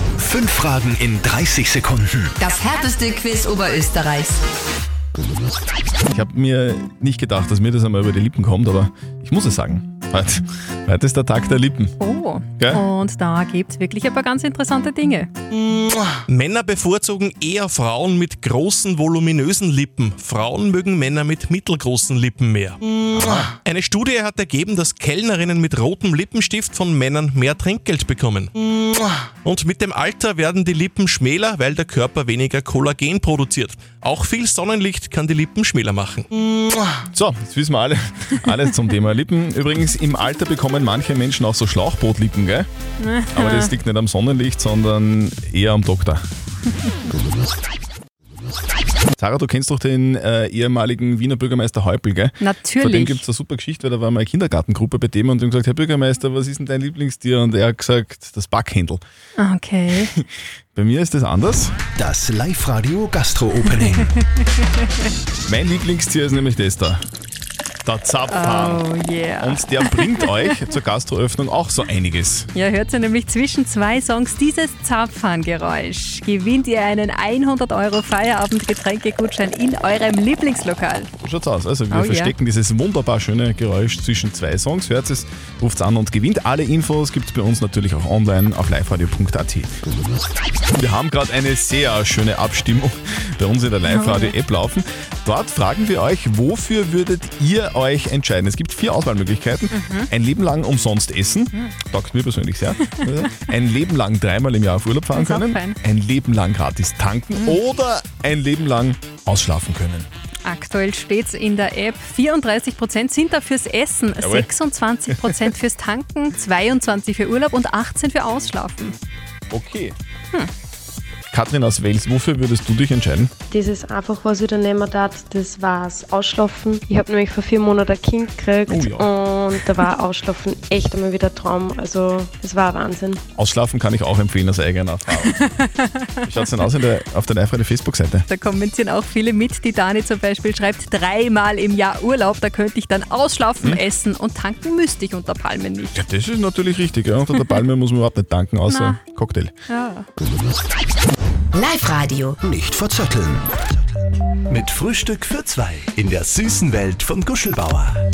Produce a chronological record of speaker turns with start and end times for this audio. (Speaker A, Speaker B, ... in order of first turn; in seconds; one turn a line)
Speaker A: 0.2-2.3
Speaker B: 2.4-4.4
Speaker C: 6.1-11.9
Speaker D: 12.0-15.3
Speaker C: 12.6-12.8
Speaker E: 16.3-28.5
Speaker E: 29.4-36.3
Speaker C: 37.1-42.7
Speaker D: 43.0-43.7
Speaker C: 43.3-46.2
Speaker C: 49.2-59.0
Speaker D: 52.4-53.2
Speaker D: 59.4-60.1
Speaker C: 60.1-61.7
Speaker A: 62.0-64.2
Speaker C: 65.5-67.0
Speaker C: 67.8-68.9
Speaker D: 68.3-70.6
Speaker C: 69.4-72.5
Speaker D: 72.5-81.1
Speaker C: 81.2-89.7
Speaker D: 81.9-82.3
Speaker C: 90.7-110.1
Speaker D: 93.8-94.3
Speaker D: 99.7-100.1
Speaker D: 105.1-105.8
Speaker D: 110.4-119.0
Speaker C: 114.2-114.5
Speaker C: 115.1-115.4
Speaker C: 119.5-119.9
Speaker C: 121.3-123.3
Speaker F: 123.5-133.2
Speaker C: 128.7-129.1
Speaker C: 133.3-135.4
Speaker D: 135.2-136.1
Speaker C: 136.2-138.2
Speaker D: 138.3-146.0
Speaker C: 145.9-149.5
Speaker D: 148.7-149.0
Speaker D: 149.7-150.1
Speaker B: 151.5-152.4
Speaker A: 152.4-153.7
Speaker A: 154.5-158.0